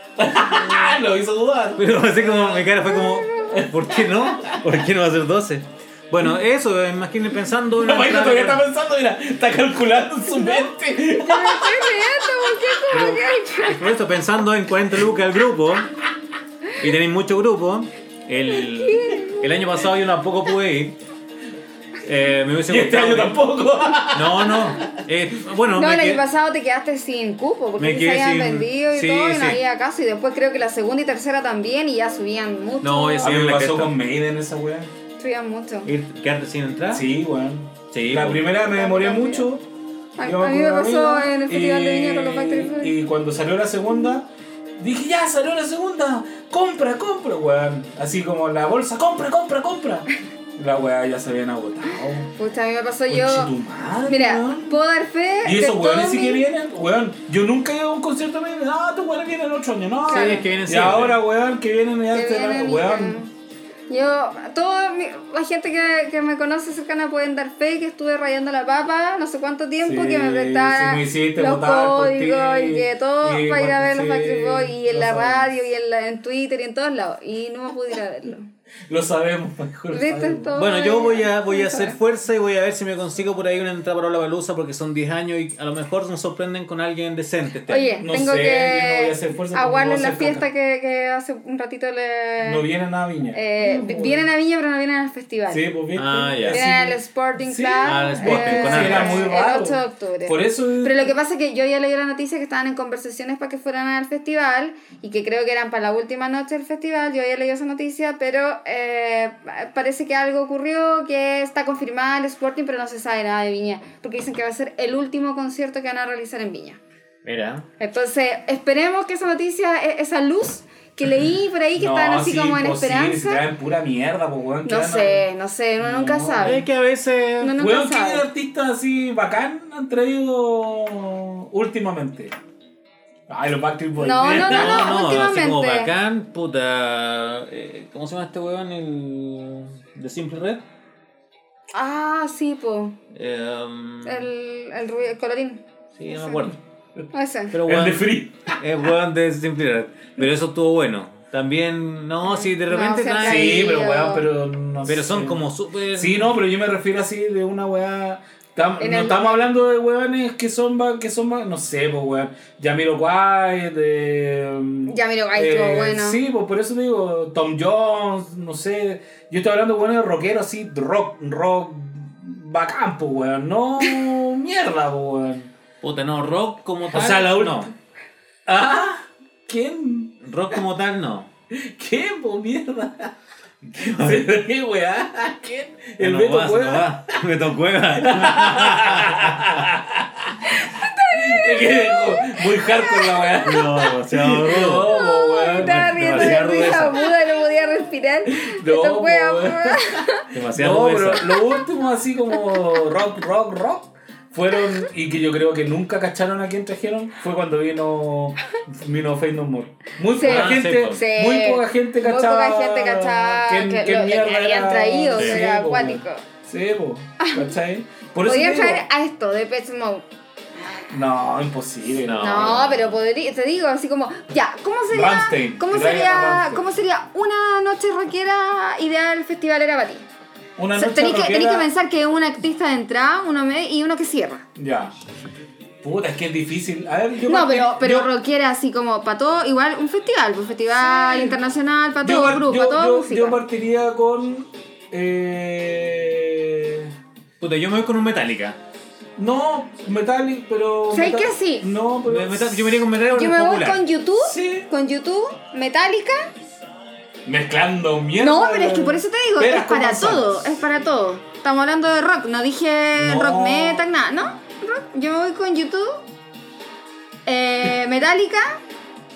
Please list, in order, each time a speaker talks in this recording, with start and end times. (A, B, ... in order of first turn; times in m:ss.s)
0:00.2-0:02.7 A
0:01.8-0:08.6 B
0:02.8-0:03.7 C
0:03.5-0:04.6 A
0:07.8-0:12.1 A
0:10.3-0:13.9 C
0:12.9-0:15.9 B
0:16.8-0:21.0 B
0:18.5-0:19.7 C
0:22.0-0:23.4 B
0:22.7-0:24.9 A
0:24.1-0:26.2 B
0:25.7-0:33.3 C
0:27.8-0:29.6 B
0:32.8-0:33.9 B
0:33.2-0:34.9 A
0:35.2-0:35.9 C
0:35.8-0:37.0 B
0:36.9-0:39.7 A
0:37.9-0:38.5 B
0:38.6-0:39.4 C
0:40.2-0:42.9 C
0:40.2-0:52.3 A
0:52.4-0:53.5 C
0:53.1-0:54.8 A
0:54.0-0:56.4 C
0:55.4-1:03.2 A
1:00.1-1:00.4 C
1:00.1-1:01.2 B
1:02.1-1:03.3 C
1:03.9-1:18.5 C
1:09.8-1:15.5 A
1:18.9-1:20.5 A
1:19.9-1:22.0 C
1:20.5-1:28.0 B
1:27.7-1:32.6 C
1:28.0-1:30.4 A
1:32.4-1:34.3 A
1:33.3-1:35.7 C
1:35.5-1:41.1 A
1:35.9-1:36.6 B
1:36.5-1:56.8 C
1:37.8-1:39.2 B
1:57.2-1:57.7 B
1:57.8-2:03.4 C
2:01.8-2:05.2 A
2:04.6-2:06.6 C
2:05.8-2:06.6 A
2:06.4-2:07.5 B
2:07.4-2:08.3 C
2:07.6-2:12.3 A
2:13.3-2:15.0 A
2:14.0-2:15.9 C
2:14.2-2:20.6 B
2:21.7-2:23.0 C
2:23.1-2:24.3 B
2:24.0-2:25.6 C
2:26.0-2:26.6 B
2:26.2-2:26.5 C
2:27.1-2:27.6 C
2:27.5-2:33.6 B
2:27.6-2:28.6 A
2:32.2-2:34.3 C
2:33.2-2:35.4 A
2:34.8-2:36.4 B
2:35.9-2:55.5 A
2:38.8-2:39.5 C
2:44.9-2:46.2 C
2:55.8-2:57.7 B
2:56.9-2:57.7 A
2:58.4-3:00.6 A
3:00.2-3:01.3 B
3:01.5-3:03.1 A
3:03.7-3:07.2 A
3:03.8-3:04.2 B
3:06.0-3:09.6 B
3:07.9-3:16.4 A
3:10.4-3:13.9 C
3:13.4-3:14.9 B
3:14.6-3:20.2 C
3:15.5-3:17.1 B
3:18.3-3:38.8 A
3:20.3-3:21.3 B
3:30.1-3:36.2 C
3:30.2-3:31.0 B
3:37.2-3:37.5 C
3:38.2-3:40.0 C
3:40.9-3:42.5 A
3:42.0-3:43.0 B
3:42.2-3:50.1 C
3:44.9-3:46.7 A
3:50.6-3:51.7 A
3:50.7-3:54.4 C
3:54.6-3:54.9 A
3:55.8-3:58.1 A
3:57.2-4:03.4 C
4:00.7-4:01.4 A
4:02.0-4:06.9 A
4:07.4-4:08.6 B
4:09.2-4:12.9 A
4:10.9-4:11.7 C
4:12.0-4:13.8 B
4:13.1-4:16.3 C
4:14.2-4:14.7 A
4:17.2-4:20.5 A
4:18.2-4:26.0 C
4:22.9-4:23.9 A
4:27.2-4:28.6 C